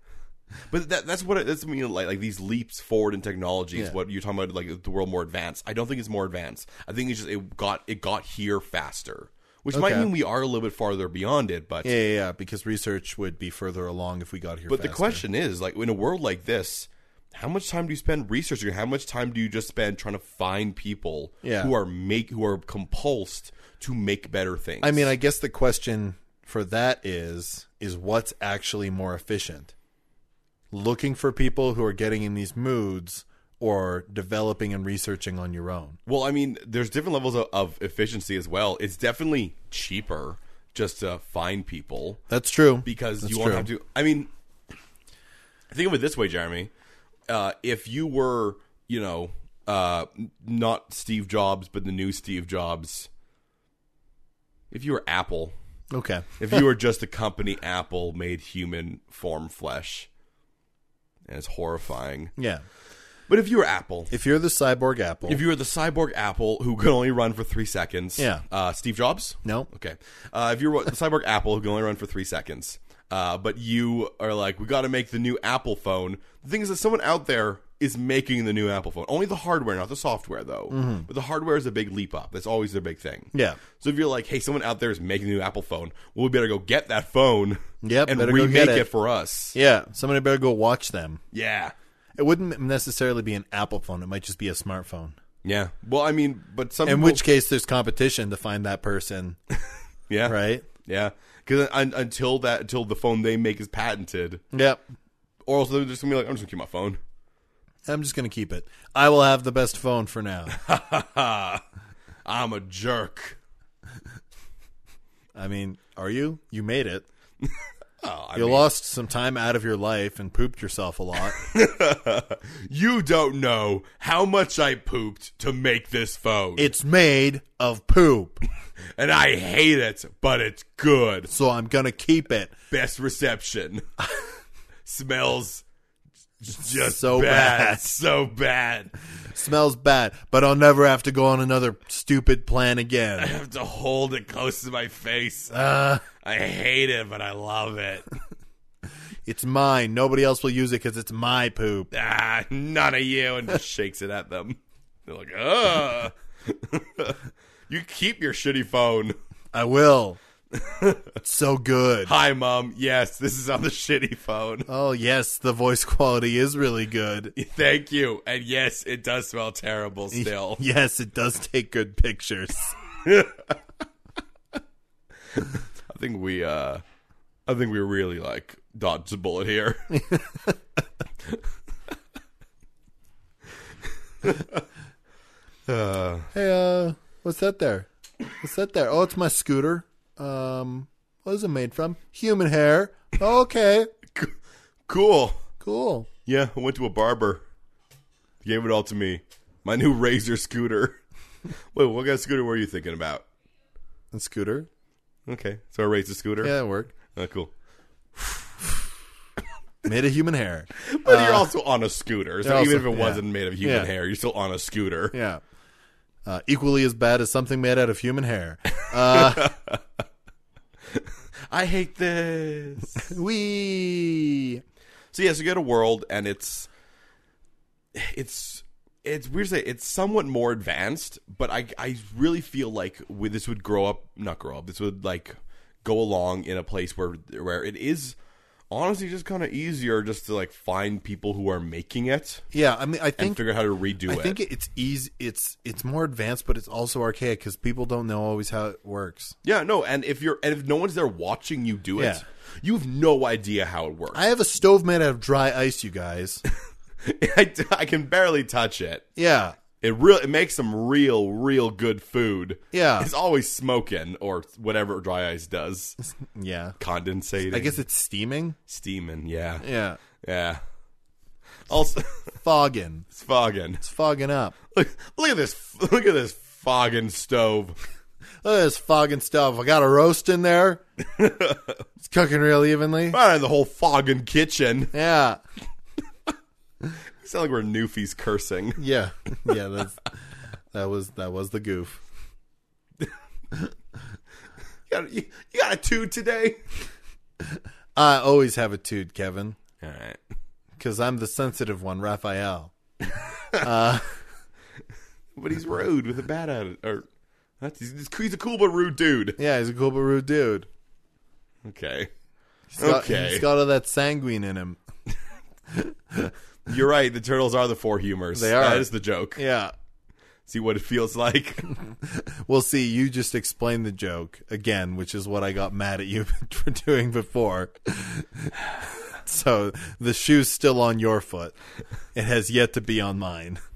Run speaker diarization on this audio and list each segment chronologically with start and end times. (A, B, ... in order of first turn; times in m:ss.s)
0:00.7-0:11.9 A
0:09.7-0:10.1 B
0:11.8-0:15.2 B
0:14.7-0:25.1 A
0:21.4-0:21.7 B
0:24.8-0:29.7 B
0:30.7-0:36.0 B
0:36.0-0:42.2 A
0:42.3-0:43.7 B
0:42.8-0:44.3 A
0:45.7-0:46.7 A
0:47.3-0:53.1 A
0:54.7-0:55.6 A
0:55.9-0:56.6 B
0:56.4-1:00.1 A
1:01.3-1:02.3 A
1:02.4-1:02.6 B
1:03.3-1:04.1 A
1:04.1-1:05.4 B
1:05.3-1:29.6 A
1:08.2-1:08.4 B
1:20.7-1:21.1 B
1:23.3-1:23.6 B
1:27.8-1:28.9 B
1:29.6-1:31.2 B
1:31.3-1:31.7 A
1:32.2-1:35.2 B
1:35.4-1:37.2 A
1:36.8-1:39.4 B
1:40.1-1:44.4 A
1:40.3-1:40.7 B
1:44.5-1:44.8 B
1:45.4-1:47.0 A
1:47.9-1:50.6 B
1:50.5-1:51.6 A
1:52.2-1:53.4 A
1:55.4-1:57.1 B
1:58.0-1:58.7 A
1:58.4-2:01.4 B
2:01.4-2:06.7 A
2:06.6-2:08.4 B
2:09.0-2:11.3 A
2:11.3-2:12.5 B
2:12.7-2:13.8 A
2:14.9-2:15.6 A
2:16.4-2:18.9 A
2:16.6-2:17.9 B
2:19.3-2:23.3 B
2:23.2-2:28.1 A
2:25.5-2:26.0 B
2:29.3-2:31.9 B
2:31.9-2:39.2 A
2:39.5-2:40.2 B
2:40.5-2:41.1 A
2:41.2-2:42.1 B
2:42.0-2:44.7 A
2:44.7-2:47.3 B
2:47.4-2:50.6 A
2:50.1-2:52.8 B
2:53.0-2:53.4 A
2:55.9-2:56.8 A
2:57.4-3:00.1 A
2:59.9-3:00.6 B
3:04.2-3:04.6 A
3:05.7-3:06.3 A
3:06.3-3:07.9 B
3:08.4-3:13.9 B
3:14.9-3:15.4 A
3:15.6-3:16.1 B
3:16.3-3:17.4 A
3:18.4-3:21.0 A
3:21.7-3:23.3 A
3:24.1-3:24.7 B
3:25.3-3:26.6 A
3:26.4-3:26.9 B
3:27.1-3:27.5 A
3:29.8-3:31.5 B
3:30.8-3:35.2 A
3:32.4-3:33.9 B
3:35.1-3:35.4 B
3:36.2-3:39.5 B
3:38.8-3:39.8 A
3:40.9-3:43.1 A
3:43.0-3:44.6 B
3:45.1-3:46.7 A
3:48.0-3:58.2 A
3:58.7-4:02.4 A
4:02.5-4:03.4 B
4:03.2-4:04.4 A
4:04.0-4:09.4 B
4:09.4-4:14.2 A
4:12.0-4:12.2 B
4:14.1-4:16.4 B
4:17.0-4:19.1 A
4:19.2-4:19.6 B
4:19.8-4:26.0 A
4:22.7-4:23.1 B
4:26.1-4:26.8 B
4:26.8-4:27.8 A
4:27.5-4:28.6 B
4:28.7-4:29.7 A
4:29.6-4:30.0 B
4:30.2-4:30.6 A
4:31.7-4:32.4 A
4:32.4-4:33.1 B
4:33.1-4:33.8 A
4:33.8-4:34.6 B
4:34.7-4:37.8 A
4:38.4-4:40.8 B
4:41.0-4:41.8 A
4:42.0-4:43.2 B
4:43.1-4:45.0 A
4:44.9-4:45.4 B
4:47.2-4:48.8 A
4:48.8-4:50.0 B
4:50.7-4:52.0 B
4:54.9-4:56.6 A
4:58.0-4:59.6 B
4:59.8-5:00.2 A
5:00.8-5:02.7 B
5:03.1-5:03.7 A
5:03.6-5:04.2 B
5:05.4-5:07.0 A
5:07.6-5:09.4 A
5:09.4-5:10.7 B
5:11.6-5:12.1 A
5:12.7-5:13.4 A
5:12.8-5:14.8 B
5:15.7-5:16.3 B
5:16.7-5:19.4 A
5:18.3-5:19.7 B
5:20.4-5:21.7 A
5:21.8-5:31.5 B
5:32.1-5:33.6 B